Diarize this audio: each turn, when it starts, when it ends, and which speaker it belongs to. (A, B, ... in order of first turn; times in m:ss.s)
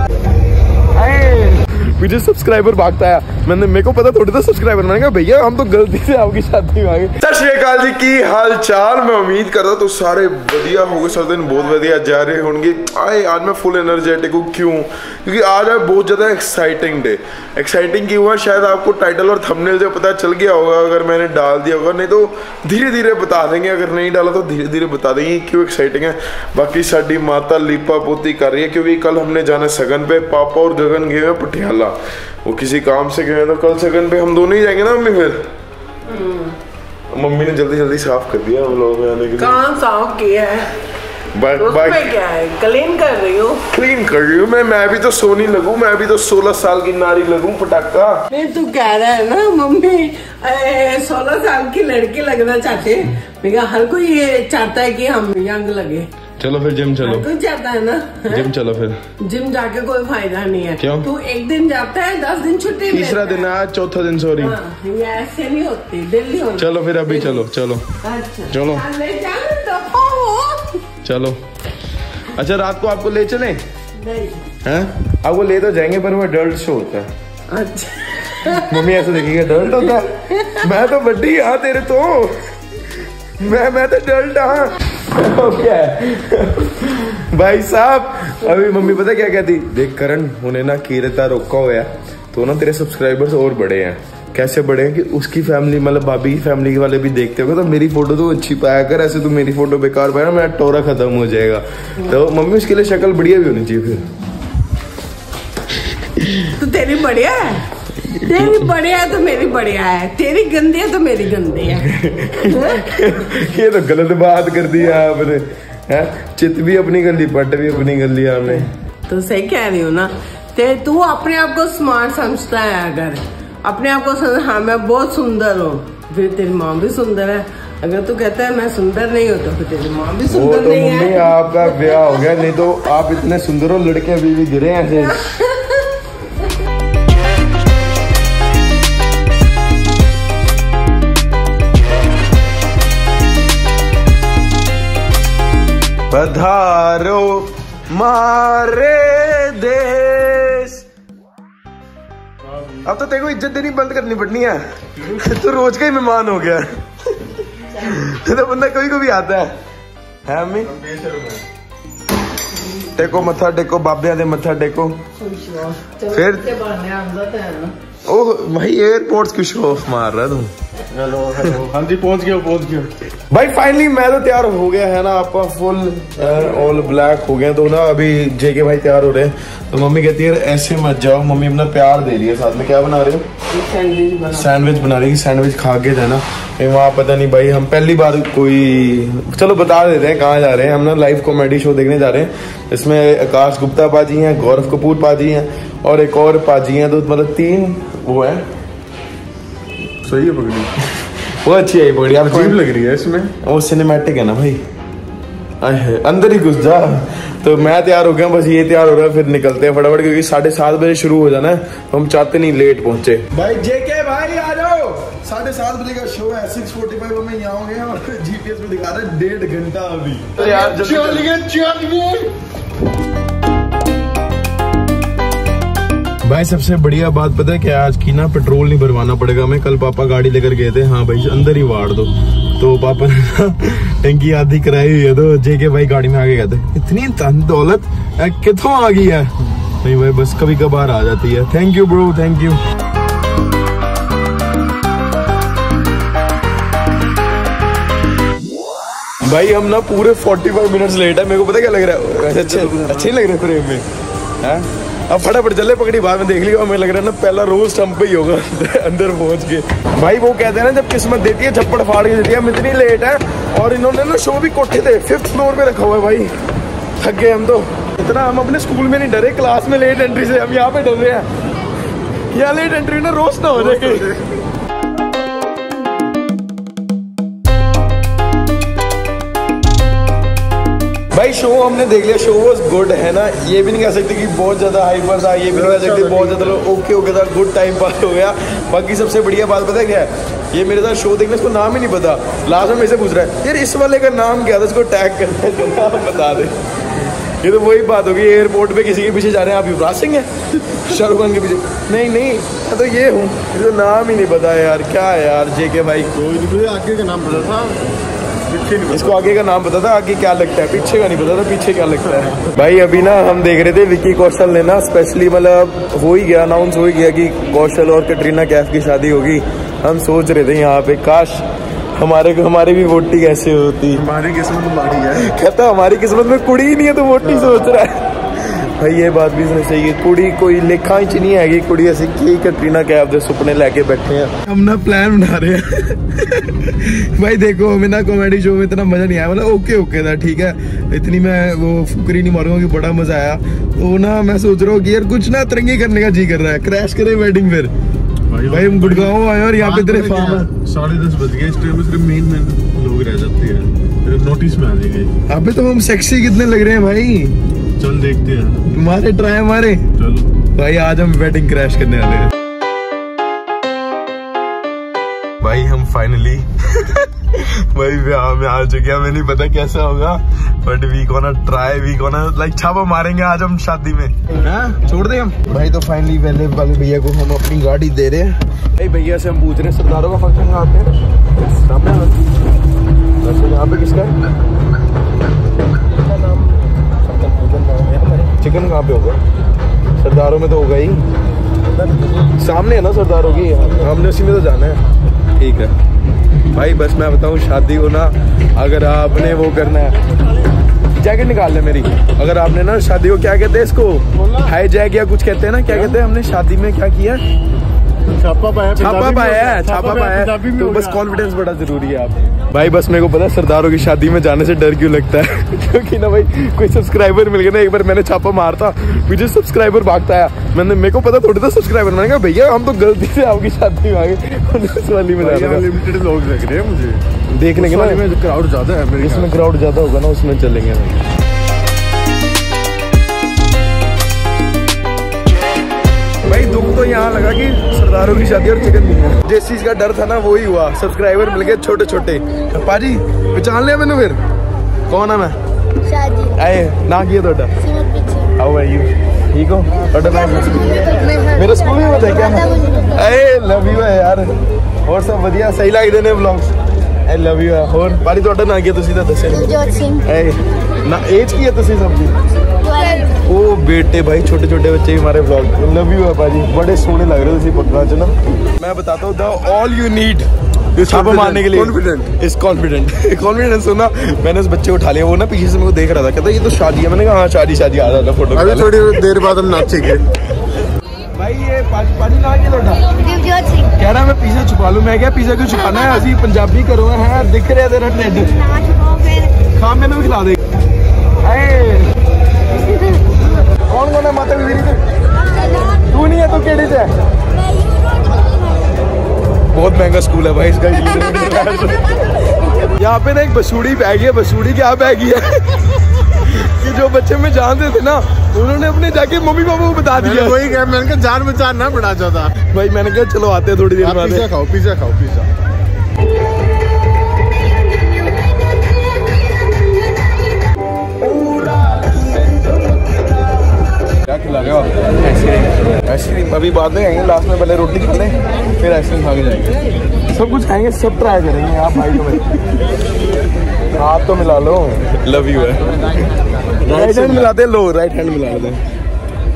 0:00.9-0:35.4 A
0:36.1-0:36.5 B
0:37.1-0:39.6 A
0:39.4-0:40.7 B
0:41.3-0:42.1 A
0:41.6-0:43.6 B
0:43.7-0:48.2 A
0:48.3-0:56.1 B
0:56.4-0:57.3 A
0:57.0-0:58.5 B
0:58.3-0:59.0 A
0:59.2-1:03.5 B
1:00.8-1:01.1 A
1:02.9-1:04.6 A
1:04.4-1:07.4 B
1:06.6-1:07.8 A
1:08.0-1:10.8 B
1:08.5-1:08.8 A
1:11.0-1:11.4 A
1:12.3-1:13.6 A
1:14.0-1:14.5 B
1:14.6-1:17.1 A
1:17.5-1:18.8 B
1:18.4-1:22.8 A
1:20.3-1:20.6 B
1:23.4-1:44.0 A
1:46.2-1:46.5 A
1:46.6-1:51.9 B
1:48.2-1:48.7 A
1:51.8-1:58.7 A
1:52.4-1:52.8 B
1:59.1-2:12.3 B
2:10.3-2:15.2 A
2:15.2-2:15.9 B
2:26.1-2:30.8 A
2:32.5-2:32.8 C
2:32.8-2:39.5 A
2:40.2-2:40.8 A
2:40.8-2:41.4 C
2:42.9-2:45.0 A
2:45.2-2:47.7 B
2:46.1-2:46.5 A
2:48.0-2:50.5 A
2:50.9-2:52.9 C
2:53.3-3:03.2 A
3:03.5-3:04.5 B
3:04.3-3:18.4 A
3:20.0-3:20.7 C
3:21.0-3:22.6 A
3:22.2-3:23.3 C
3:23.4-3:24.6 A
3:25.6-3:41.4 A
3:40.5-3:42.3 C
3:46.2-3:59.3 A
3:59.8-4:02.6 A
4:09.2-4:13.8 A
4:12.4-4:13.0 C
4:14.4-4:26.3 A
4:27.0-4:31.3 A
4:32.3-4:34.2 A
4:41.1-5:06.1 A
4:45.7-4:46.5 C
5:06.2-5:07.8 C
5:08.5-5:09.4 C
5:08.9-5:24.0 A
5:24.0-5:25.3 C
5:25.1-5:47.7 A
5:27.2-5:27.6 C
5:48.3-5:55.1 C
5:48.5-5:50.5 A
5:55.3-5:57.4 A
5:57.8-5:58.7 C
5:58.7-5:59.8 A
6:00.0-6:00.3 C
6:00.5-6:02.3 A
6:05.4-6:22.2 A
6:23.2-6:24.1 A
6:27.0-6:29.2 A
6:30.0-6:31.0 A
6:32.4-6:34.8 A
6:35.4-6:35.7 A
6:36.5-6:40.0 A
6:41.0-6:47.2 A
6:48.1-6:51.0 C
6:48.8-7:05.7 A
7:05.2-7:07.0 C
7:07.3-7:08.0 A
7:07.5-7:09.4 C
7:09.0-7:11.0 A
7:16.2-7:24.2 A
7:24.9-7:25.4 A
7:26.2-7:27.7 A
7:28.2-7:34.3 A
7:34.8-7:36.5 A
7:37.0-7:42.2 A
7:43.0-7:50.3 A
7:50.7-7:52.1 C
7:50.8-7:59.5 A
7:58.3-8:00.0 C
8:01.2-8:08.6 A
8:09.4-8:10.4 A
8:11.2-8:11.9 A
8:13.7-8:14.8 A
8:15.6-8:16.9 A
8:19.5-8:22.0 A
8:22.6-8:30.6 A
8:29.9-8:32.4 C
8:32.4-8:34.3 A
8:33.8-8:35.3 C
8:41.2-8:41.5 A
8:44.0-8:49.6 A
8:50.1-8:52.2 A
8:53.7-8:55.9 A
8:56.6-8:57.3 C
8:56.7-8:58.6 A